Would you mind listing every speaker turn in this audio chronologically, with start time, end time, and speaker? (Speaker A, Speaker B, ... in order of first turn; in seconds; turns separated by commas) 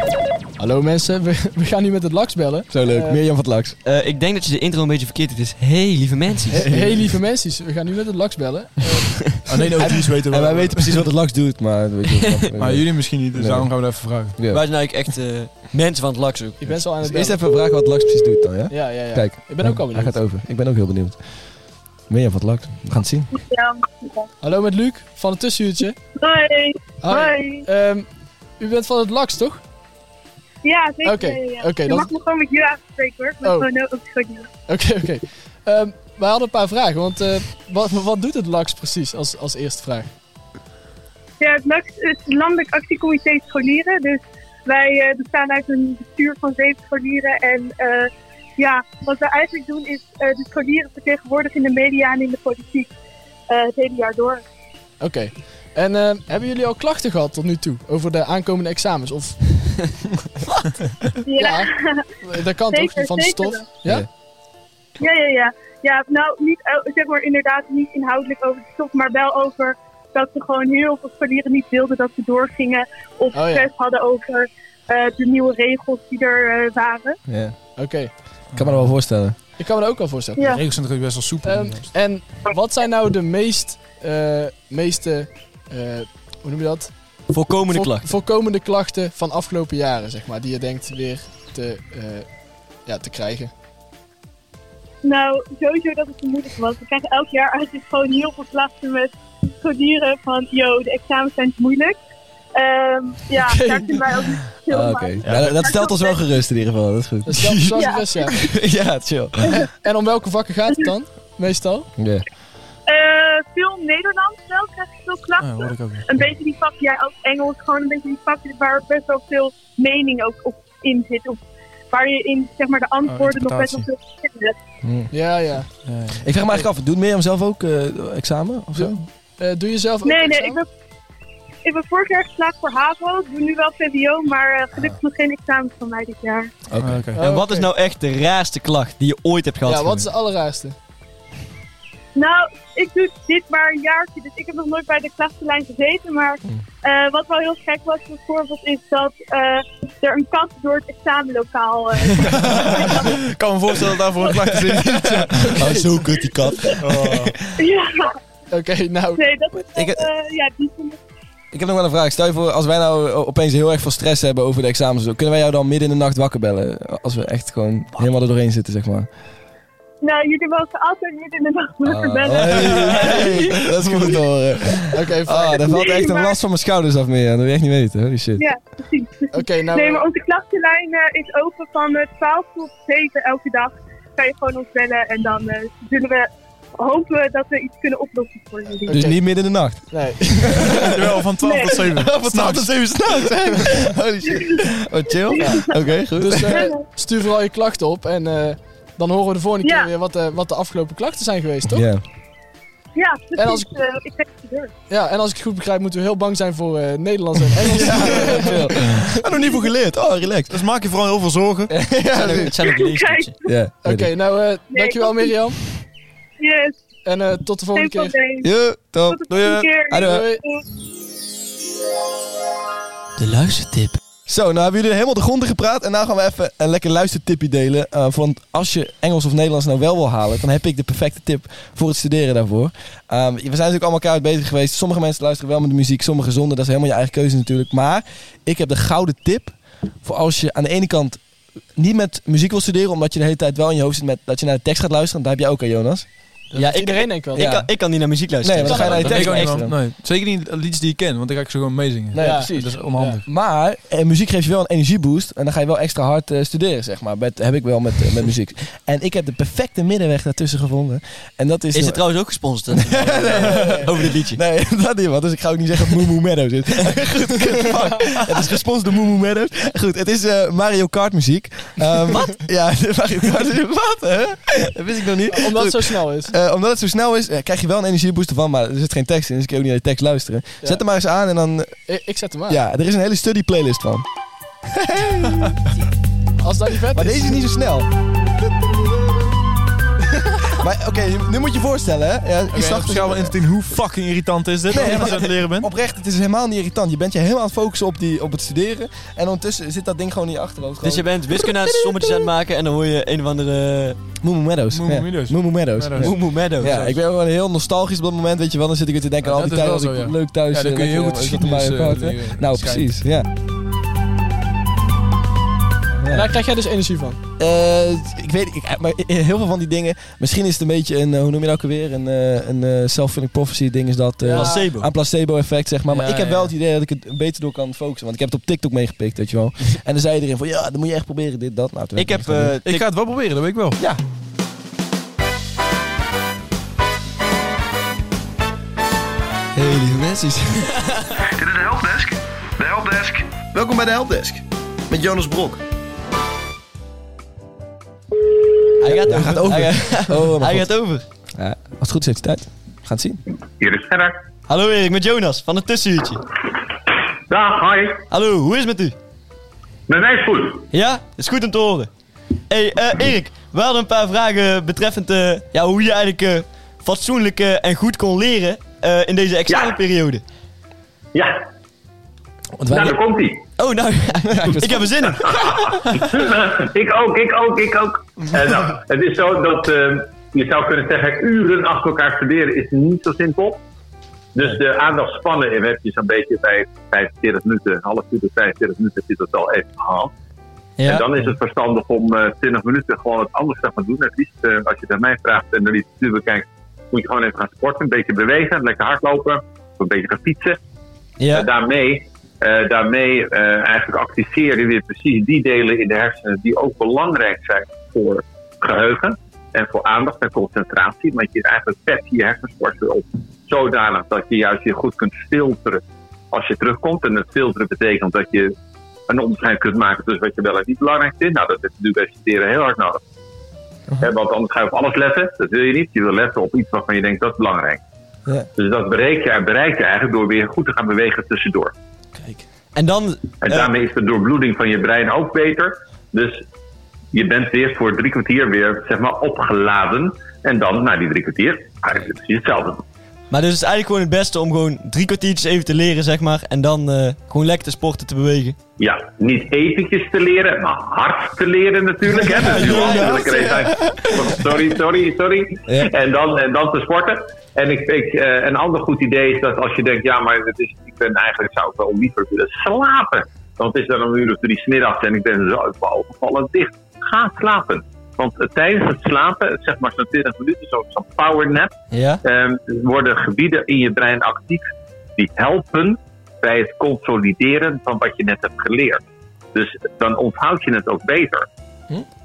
Speaker A: 0.6-3.2, Speaker B: 2.7-3.8, Speaker C: 3.9-6.6, Speaker A: 6.5-9.8, Speaker B: 6.5-7.0, Speaker D: 9.5-11.0, Speaker B: 9.8-14.6, Speaker C: 12.2-12.4, Speaker D: 12.6-14.4, Speaker C: 14.5-16.8, Speaker A: 16.6-17.4, Speaker B: 17.0-21.2, Speaker A: 18.7-20.2, Speaker B: 22.1-23.3, Speaker E: 23.3-24.3, Speaker A: 24.4-26.0, Speaker E: 26.2-27.6, Speaker A: 27.0-28.1, Speaker A: 28.6-29.6, Speaker E: 30.6-34.5, Speaker A: 31.0-32.1, Speaker A: 33.4-33.7, Speaker A: 34.7-40.1, Speaker E: 41.4-52.9, Speaker E: 53.5-54.4, Speaker A: 55.0-59.9, Speaker E: 61.2-62.1, Speaker A: 61.4-61.7, Speaker A: 62.2-64.1, Speaker E: 62.7-63.7, Speaker E: 65.0-77.2, Speaker A: 73.3-73.7, Speaker B: 77.3-77.6, Speaker A: 77.8-78.1, Speaker D: 78.5-78.9, Speaker B: 78.5-79.4, Speaker A: 79.6-80.6, Speaker D: 80.5-81.9, Speaker A: 81.4-87.0, Speaker C: 87.3-88.1, Speaker A: 87.7-92.3, Speaker A: 92.9-93.5, Speaker E: 95.0-102.0, Speaker E: 102.5-106.2, Speaker A: 103.3-104.2, Speaker B: 104.7-107.8, Speaker D: 105.2-105.6, Speaker A: 107.2-108.4, Speaker E: 107.7-108.3, Speaker B: 108.4-109.6, Speaker A: 109.7-111.9, Speaker B: 112.0-112.2, Speaker E: 112.9-121.4, Speaker D: 115.4-116.1, Speaker E: 121.9-124.6, Speaker D: 123.1-123.9, Speaker B: 124.8-125.1, Speaker A: 125.1-125.7, Speaker D: 125.8-126.3, Speaker B: 126.2-129.0, Speaker A: 129.4-130.6, Speaker E: 130.0-130.7, Speaker E: 131.7-136.5, Speaker B: 136.7-137.1, Speaker D: 136.8-137.2, Speaker A: 137.1-137.7, Speaker C: 137.2-140.1, Speaker A: 139.7-140.8, Speaker E: 142.2-153.2, Speaker D: 152.2-155.6, Speaker B: 154.7-157.3, Speaker A: 155.3-156.0, Speaker C: 155.6-156.6, Speaker D: 156.8-157.4, Speaker E: 157.6-158.2, Speaker A: 158.5-159.2, Speaker E: 159.2-161.0, Speaker B: 159.8-160.1, Speaker B: 161.5-169.1, Speaker E: 170.0-173.7, Speaker B: 171.8-178.5, Speaker A: 172.9-173.3, Speaker A: 174.9-175.8, Speaker E: 175.7-176.4, Speaker E: 178.4-189.0, Speaker A: 179.3-180.1, Speaker A: 188.9-189.2, Speaker B: 188.9-191.3, Speaker A: 189.9-190.9, Speaker D: 190.8-193.8, Speaker E: 191.4-192.1, Speaker B: 191.9-196.7, Speaker E: 194.3-194.6, Speaker E: 195.3-195.7, Speaker A: 196.2-201.9, Speaker E: 196.5-196.9, Speaker E: 199.6-199.9, Speaker B: 201.7-202.0, Speaker E: 203.0-204.7, Speaker A: 203.4-203.7, Speaker A: 204.9-209.2, Speaker B: 207.7-210.6, Speaker D: 210.5-211.8, Speaker B: 211.7-212.5, Speaker C: 212.1-213.3, Speaker E: 212.6-213.5, Speaker B: 213.4-214.1, Speaker A: 213.8-215.6, Speaker E: 214.7-215.3, Speaker E: 216.4-216.9, Speaker A: 217.0-218.2, Speaker E: 217.7-218.5, Speaker B: 218.4-220.3, Speaker E: 219.1-220.6, Speaker A: 220.0-220.4, Speaker C: 223.2-224.0, Speaker B: 224.3-241.2, Speaker B: 241.8-246.1, Speaker A: 246.5-247.6, Speaker C: 246.5-249.6, Speaker B: 247.3-247.7, Speaker B: 248.4-249.8, Speaker A: 248.6-249.4, Speaker D: 248.9-253.2, Speaker B: 252.1-262.0, Speaker A: 252.2-253.2, Speaker C: 261.7-264.4, Speaker B: 262.7-281.8, Speaker A: 275.3-276.4, Speaker A: 281.9-282.6, Speaker B: 282.5-284.1, Speaker B: 284.7-285.6, Speaker A: 286.4-287.4, Speaker B: 286.9-287.9, Speaker B: 290.5-293.4, Speaker D: 292.5-295.7, Speaker B: 294.7-302.2, Speaker C: 300.8-304.0, Speaker B: 304.2-313.3, Speaker D: 304.7-306.9, Speaker C: 306.0-306.9, Speaker D: 309.2-312.9, Speaker B: 316.0-316.3, Speaker A: 316.1-317.2, Speaker B: 317.4-332.5, Speaker A: 324.2-324.7, Speaker C: 324.3-324.9, Speaker D: 325.9-326.5, Speaker C: 332.0-332.9, Speaker D: 332.6-333.8, Speaker C: 339.6-341.2, Speaker B: 341.2-345.6, Speaker C: 348.8-351.0, Speaker B: 348.9-350.7, Speaker B: 351.4-353.2, Speaker F: 353.6-354.2, Speaker C: 354.5-356.2, Speaker F: 357.3-358.0, Speaker C: 358.1-358.9, Speaker F: 359.9-360.7, Speaker C: 360.7-361.9, Speaker C: 362.5-370.2, Speaker F: 369.5-369.8, Speaker F: 371.1-371.4, Speaker B: 372.6-373.0, Speaker F: 372.7-373.4, Speaker C: 373.6-375.8, Speaker B: 374.2-375.1, Speaker F: 375.2-383.6, Speaker F: 384.4-390.1, Speaker C: 390.8-391.1, Speaker F: 390.9-400.6, Speaker C: 401.2-401.5, Speaker F: 401.3-418.5, Speaker F: 419.1-423.0, Speaker F: 424.0-427.8, Speaker F: 428.6-431.7, Speaker C: 432.8-433.7, Speaker F: 433.4-436.4, Speaker F: 437.1-442.8, Speaker C: 443.3-448.6, Speaker F: 448.8-471.7, Speaker C: 452.2-453.7, Speaker B: 452.4-454.6, Speaker C: 471.9-472.2, Speaker F: 472.2-479.0, Speaker F: 479.5-481.5